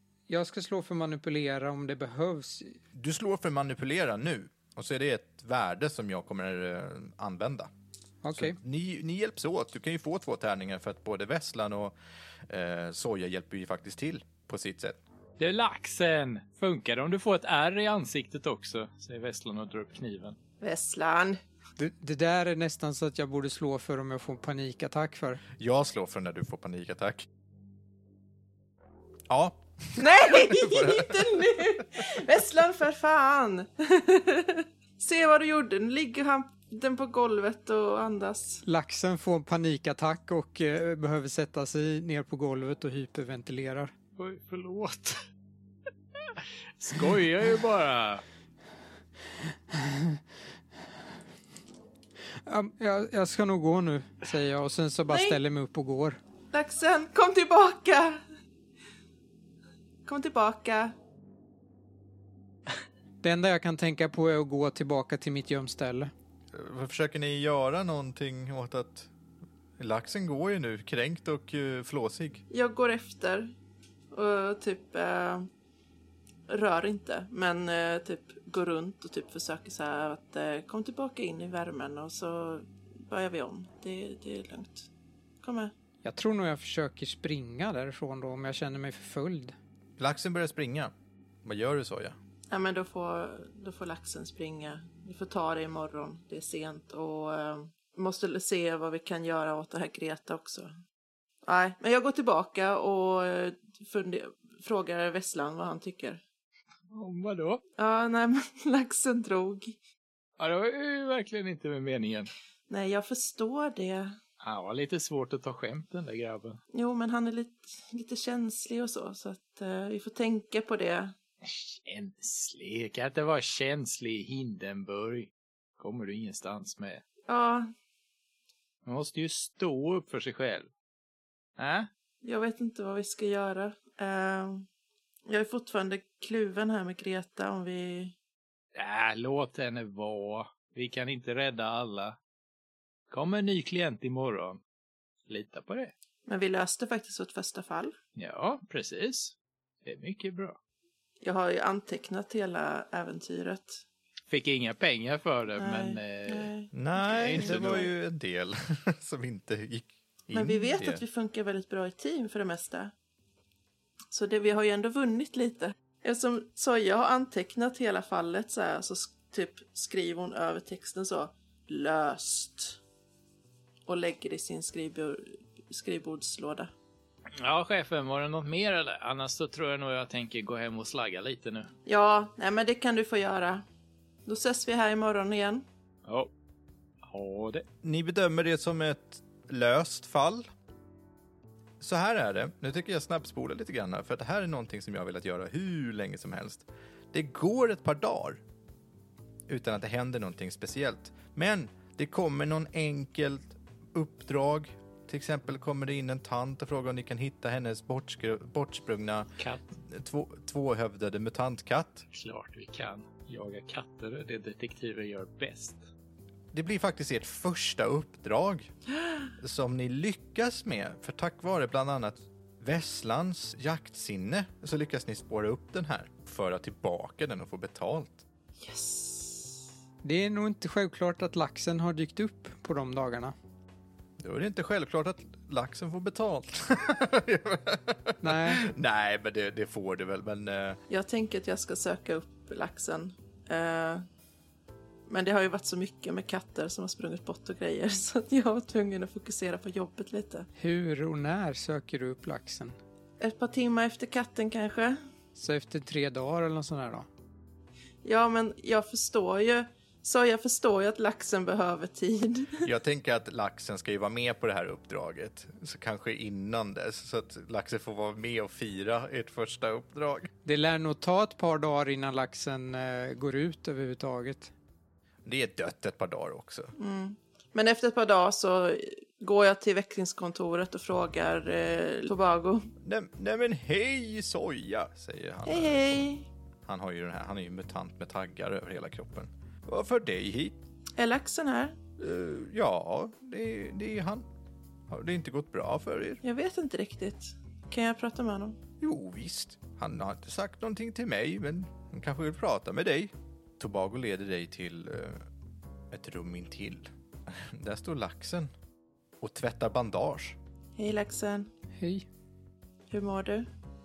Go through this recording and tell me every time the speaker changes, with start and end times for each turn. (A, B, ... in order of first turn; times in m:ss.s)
0:00.3-0:02.8 A
0:02.9-0:07.7 B
0:08.2-0:08.6 A
0:08.3-0:11.9 B
0:12.5-0:15.0 B
0:15.4-0:20.4 C
0:20.6-0:21.4 D
0:21.8-0:25.4 A
0:25.6-0:27.3 B
0:29.3-0:32.0 B
0:30.0-0:38.6 D
0:38.6-0:43.9 A
0:44.2-0:45.2 C
0:46.2-0:48.2 C
0:49.7-0:50.2 A
0:52.4-0:56.2 A
0:55.1-0:55.4 D
0:56.5-0:58.2 D
1:00.0-1:00.9 D
1:03.2-1:06.1 A
1:06.5-1:09.1 B
1:09.8-1:12.4 B
1:12.5-1:13.5 D
1:14.1-1:15.5 D
1:16.5-1:24.9 D
1:25.4-1:25.7 D
1:26.0-1:29.6 A
1:30.0-1:30.9 B
1:31.4-1:32.2 B
1:32.5-1:40.7 D
1:41.4-1:46.2 D
1:46.9-1:47.6 C
1:47.8-1:49.8 D
1:50.4-1:52.3 C
1:52.7-1:54.2 D
1:54.4-1:56.6 C
1:56.7-2:01.1 D
2:01.4-2:07.0 C
2:07.3-2:07.7 D
2:08.8-2:10.7 C
2:11.6-2:11.9 C
2:12.2-2:14.6 D
2:15.3-2:18.1 D
2:18.7-2:22.2 C
2:23.1-2:24.6 C
2:25.3-2:25.9 C
2:26.2-2:27.9 D
2:28.2-2:30.6 C
2:31.2-2:33.8 D
2:34.3-2:36.5 C
2:35.6-2:37.9 D
2:36.7-2:41.0 B
2:37.0-2:37.9 C
2:40.3-2:42.9 D
2:44.1-2:52.8 D
2:53.9-2:56.7 D
2:57.4-3:01.7 C
3:01.9-3:03.6 D
3:04.2-3:05.6 D
3:06.0-3:06.3 C
3:07.0-3:07.6 C
3:07.8-3:10.5 B
3:11.8-3:18.4 B
3:19.5-3:29.3 B
3:29.4-3:29.7 C
3:29.9-3:32.0 B
3:32.1-3:35.9 C
3:36.5-3:38.7 B
3:39.4-3:48.2 B
3:48.6-3:49.6 D
3:50.0-3:53.3 A
3:54.2-4:00.8 B
3:58.2-3:58.6 A
4:00.9-4:04.0 D
4:05.1-4:10.5 D
4:10.6-4:12.8 A
4:13.2-4:15.0 D
4:15.3-4:17.1 A
4:18.0-4:22.7 D
4:22.6-4:30.3 B
4:30.4-4:34.5 A
4:35.2-4:36.7 B
4:36.8-4:42.7 D
4:42.8-4:46.0 B
4:45.4-4:46.3 D
4:46.6-4:50.6 B
4:51.0-4:51.8 D
4:52.0-4:54.2 B
4:54.9-4:56.2 B
4:56.2-4:58.6 D
4:58.8-5:05.2 B
5:05.9-5:08.5 B
5:09.2-5:10.4 B
5:10.8-5:11.5 D
5:11.8-5:12.1 A
5:12.9-5:13.5 D